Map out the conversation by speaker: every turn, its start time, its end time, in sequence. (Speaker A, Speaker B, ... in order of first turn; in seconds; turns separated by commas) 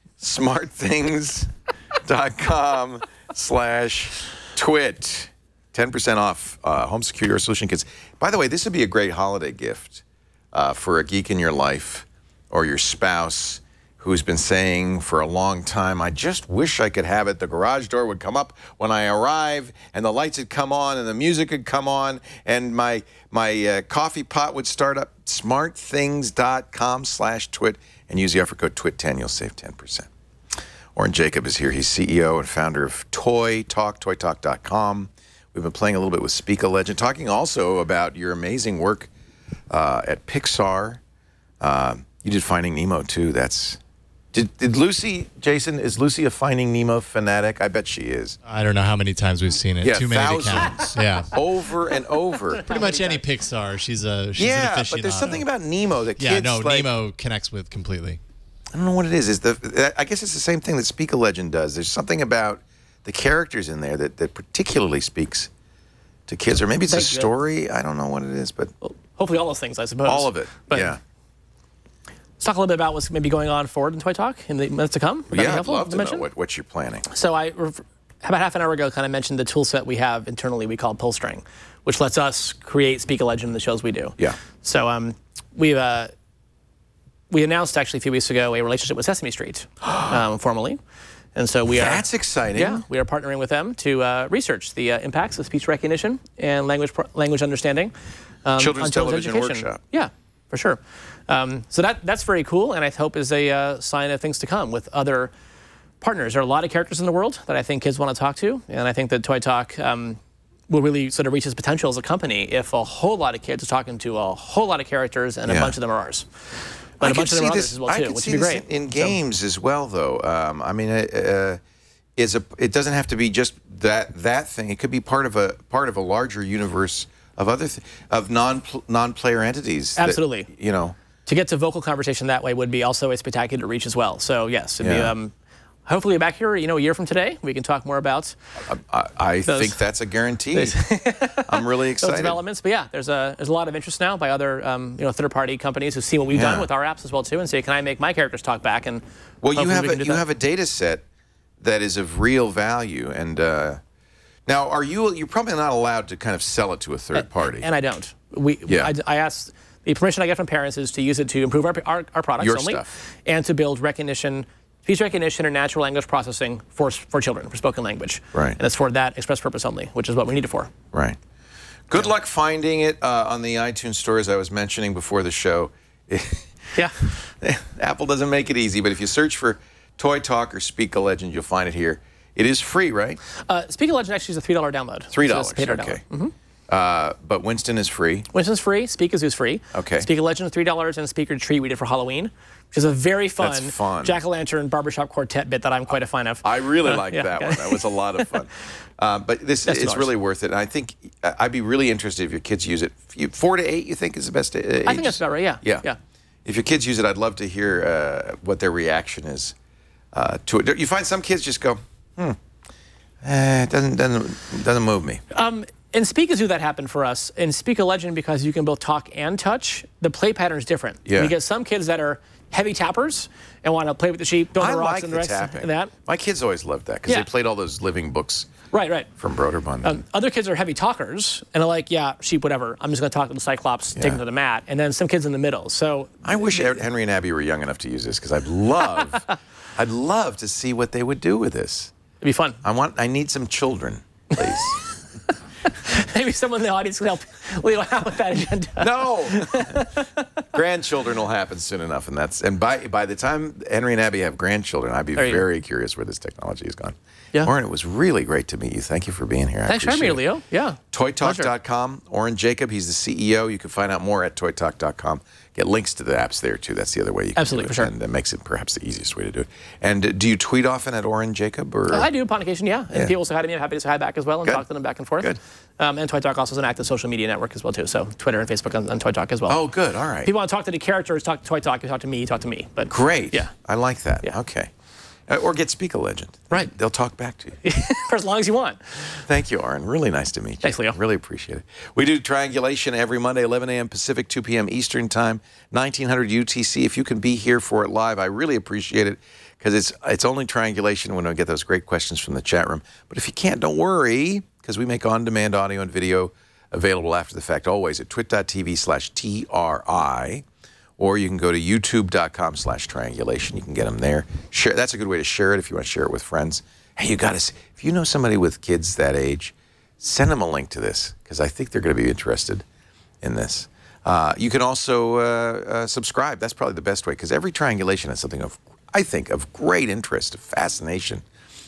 Speaker A: 0.2-1.5, Speaker A: 2.0-30.1, Speaker A: 30.9-39.1, Speaker A: 39.7-41.0, Speaker A: 41.6-43.8, Speaker A: 44.3-48.4, Speaker B: 48.4-51.4, Speaker A: 49.8-53.1, Speaker C: 52.6-53.2, Speaker B: 52.6-55.5, Speaker A: 54.4-56.9, Speaker B: 56.2-58.2, Speaker A: 58.7-65.5, Speaker A: 66.3-68.7, Speaker C: 66.9-67.3, Speaker C: 68.8-71.0, Speaker A: 70.0-71.0, Speaker C: 72.4-76.3, Speaker A: 75.3-77.1, Speaker C: 77.1-86.1, Speaker C: 87.3-90.8, Speaker A: 89.8-90.2, Speaker C: 91.3-92.0, Speaker A: 91.7-92.8, Speaker C: 92.5-97.9, Speaker C: 98.5-105.3, Speaker A: 98.6-99.8, Speaker C: 106.0-116.3, Speaker A: 115.5-115.7, Speaker C: 117.0-119.2, Speaker A: 117.0-121.6, Speaker A: 122.2-131.0, Speaker C: 130.0-130.5, Speaker C: 131.3-135.3, Speaker A: 134.8-135.1, Speaker C: 135.9-138.3, Speaker A: 138.6-142.4, Speaker C: 139.5-139.8, Speaker C: 140.5-149.0, Speaker A: 146.3-146.7, Speaker A: 149.4-151.1, Speaker C: 149.6-150.2, Speaker A: 151.6-153.8, Speaker A: 154.5-157.7, Speaker C: 157.2-170.7, Speaker A: 158.7-158.9, Speaker A: 162.4-162.9, Speaker A: 170.9-171.2, Speaker A: 171.9-183.2, Speaker C: 183.4-186.3, Speaker A: 185.1-186.0, Speaker A: 186.7-188.3, Speaker C: 188.3-198.3, Speaker A: 189.7-190.1, Speaker A: 193.4-194.2, Speaker A: 196.4-205.8, Speaker C: 199.7-200.1, Speaker C: 204.9-206.0, Speaker A: 206.4-209.6, Speaker A: 210.1-212.4, Speaker A: 213.2-215.2, Speaker C: 215.3-225.9, Speaker A: 221.1-221.3, Speaker A: 224.6-228.5, Speaker C: 228.7-229.1, Speaker A: 229.2-230.0, Speaker C: 229.8-236.8, Speaker A: 233.9-234.2, Speaker A: 236.2-241.9, Speaker C: 242.2-242.6, Speaker A: 242.6-244.8, Speaker C: 244.4-244.7, Speaker C: 245.8-250.3, Speaker A: 248.8-249.8, Speaker A: 250.5-260.2, Speaker C: 255.2-255.4, Speaker C: 259.7-261.5, Speaker A: 260.9-272.1, Speaker C: 267.4-267.9, Speaker C: 271.9-279.6, Speaker A: 279.5-280.3, Speaker C: 280.2-283.5, Speaker A: 282.9-284.7, Speaker A: 285.3-287.6, Speaker C: 287.6-289.2, Speaker A: 289.2-310.4, Speaker C: 290.6-291.0, Speaker A: 311.0-322.6, Speaker A: 323.2-331.2